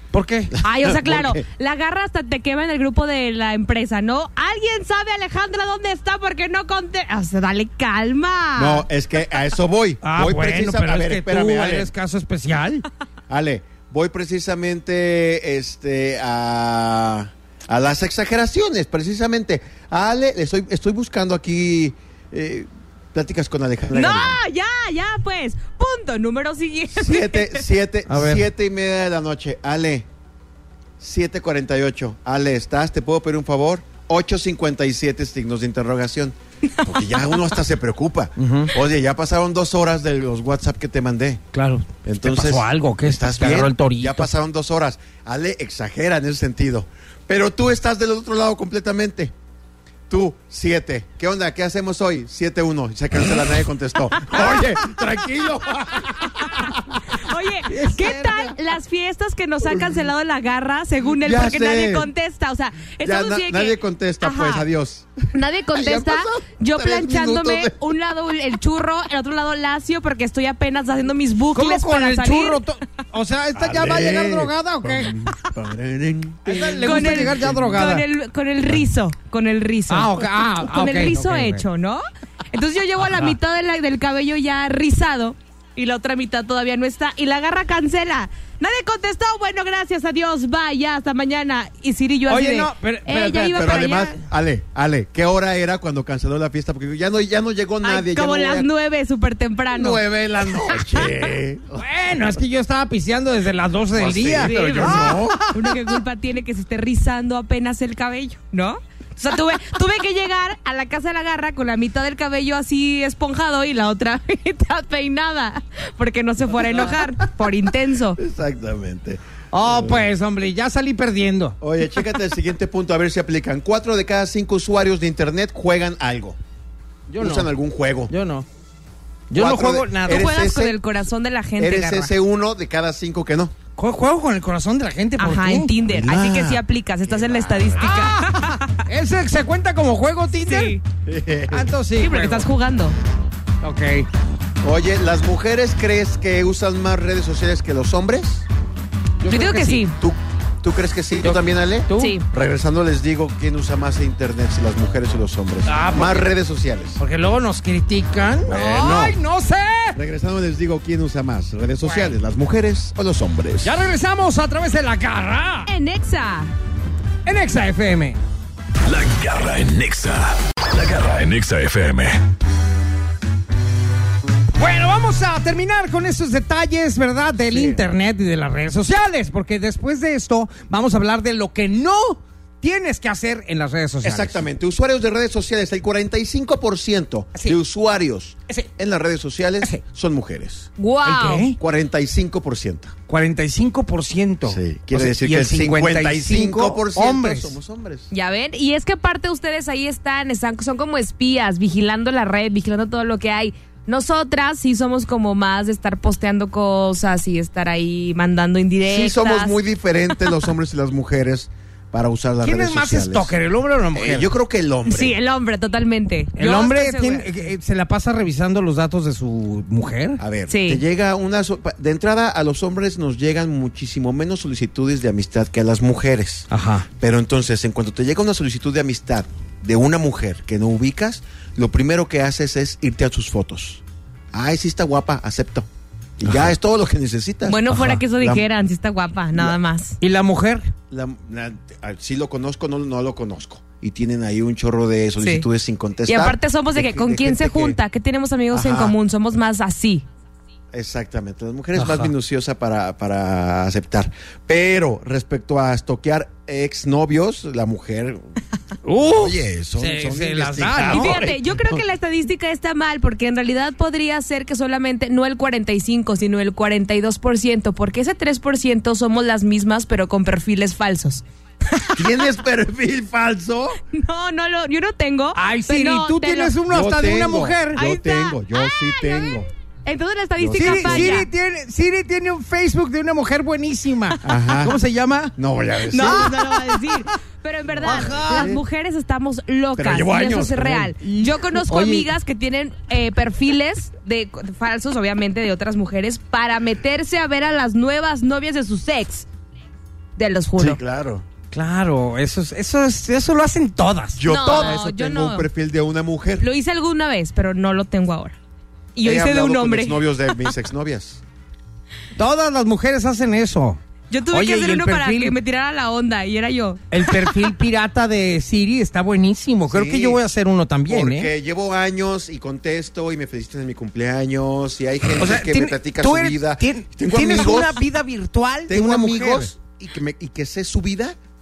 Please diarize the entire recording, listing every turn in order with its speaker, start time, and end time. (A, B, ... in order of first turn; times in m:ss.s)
0:00.1-0:00.5 A
0:00.5-0:01.4 B
0:00.6-0:08.8 C
0:08.5-0:11.9 B
0:10.0-0:12.8 A
0:13.3-0:24.4 B
0:23.9-0:27.6 C
0:26.9-0:30.1 B
0:28.1-0:28.5 A
0:31.0-0:41.4 B
0:38.4-0:38.7 A
0:41.5-0:44.3 A
0:42.0-0:49.3 B
0:50.1-0:57.0 B
0:57.1-1:04.7 C
0:57.7-0:58.4 A
0:58.1-0:58.5 B
0:59.6-1:00.0 B
1:01.2-1:02.1 B
1:03.0-1:05.1 B
1:05.3-1:12.6 C
1:05.7-1:07.8 B
1:11.5-1:15.1 A
1:13.6-1:17.9 B
1:16.4-1:18.0 A
1:16.8-1:34.2 C
1:19.9-1:21.6 A
1:23.0-1:23.4 A
1:32.3-1:33.4 A
1:33.3-1:38.7 B
1:37.8-1:40.0 C
1:39.7-1:41.8 B
1:40.5-1:41.1 C
1:41.7-1:45.6 A
1:43.9-1:45.4 B
1:44.4-1:58.2 C
1:56.7-1:57.0 B
1:58.2-2:00.1 B
1:59.5-2:01.6 A
2:01.6-2:06.4 B
2:07.1-2:07.5 A
2:07.2-2:08.1 B
2:08.1-2:08.4 A
2:09.3-2:10.3 A
2:09.3-2:10.8 B
2:10.1-2:12.1 C
2:11.6-2:13.5 B
2:13.8-2:15.7 A
2:15.2-2:18.8 C
2:15.8-2:17.9 B
2:17.8-2:20.8 A
2:20.4-2:20.8 C
2:21.0-2:21.8 B
2:21.5-2:22.5 A
2:22.0-2:23.0 C
2:23.6-2:24.1 A
2:24.6-2:28.4 B
2:29.2-2:29.8 A
2:29.3-2:30.0 C
2:30.0-2:37.0 B
2:31.2-2:32.1 A
2:32.0-2:32.2 C
2:35.6-2:36.3 A
2:37.0-2:40.0 A
2:38.5-2:39.2 B
2:38.6-2:39.1 C
2:39.9-2:43.8 B
2:41.8-2:42.2 A
2:43.6-2:45.7 A
2:45.7-2:46.5 C
2:47.2-2:48.2 A
2:48.8-2:52.2 D
2:54.6-3:04.4 A
2:57.4-2:57.9 B
3:04.0-3:10.7 B
3:10.8-3:11.5 C
3:11.0-3:11.6 A
3:11.5-3:12.9 B
3:13.1-3:17.5 A
3:14.4-3:18.1 B
3:18.1-3:29.6 C
3:28.8-3:33.3 B
3:32.4-3:34.3 A
3:33.9-3:35.2 B
3:34.8-3:37.4 C
3:36.4-3:40.2 A
3:40.2-3:53.8 B
3:40.5-3:40.8 C
3:46.5-3:46.9 A
3:54.3-3:55.7 B
3:56.2-3:58.4 B
3:57.5-4:00.0 C
3:59.3-3:59.6 B
4:00.0-4:00.7 A
4:00.9-4:07.8 B
4:05.2-4:05.4 C
4:06.1-4:10.0 C
4:08.5-4:09.0 B
4:10.7-4:18.3 B
4:11.8-4:12.1 A
4:18.8-4:21.2 A
4:19.0-4:21.8 B
4:20.9-4:32.0 C
4:32.0-4:33.8 B
4:33.9-4:36.6 C
4:35.3-4:37.8 A
4:36.7-4:39.5 B
4:37.8-4:41.3 C
4:40.4-4:41.2 B
4:40.6-4:45.3 A
4:44.2-4:44.8 B
4:45.4-4:46.6 B
4:45.9-4:59.2 C
4:46.0-4:46.9 A
4:47.7-4:48.6 B
4:47.8-4:48.5 A
4:49.8-4:51.0 B
4:51.0-4:52.1 A
5:00.2-5:00.8 C
5:00.6-5:01.2 B
5:01.5-5:04.8 A
5:04.1-5:06.5 B
5:04.3-5:05.5 C
5:06.4-5:08.4 C
5:08.9-5:10.4 C
5:09.0-5:11.2 B
5:12.2-5:13.8 A
5:14.1-5:17.4 C
5:14.3-5:15.3 A
5:16.9-5:21.3 A
5:19.7-5:20.2 B
5:20.9-5:27.8 B
5:25.2-5:29.5 A
5:28.7-5:31.2 B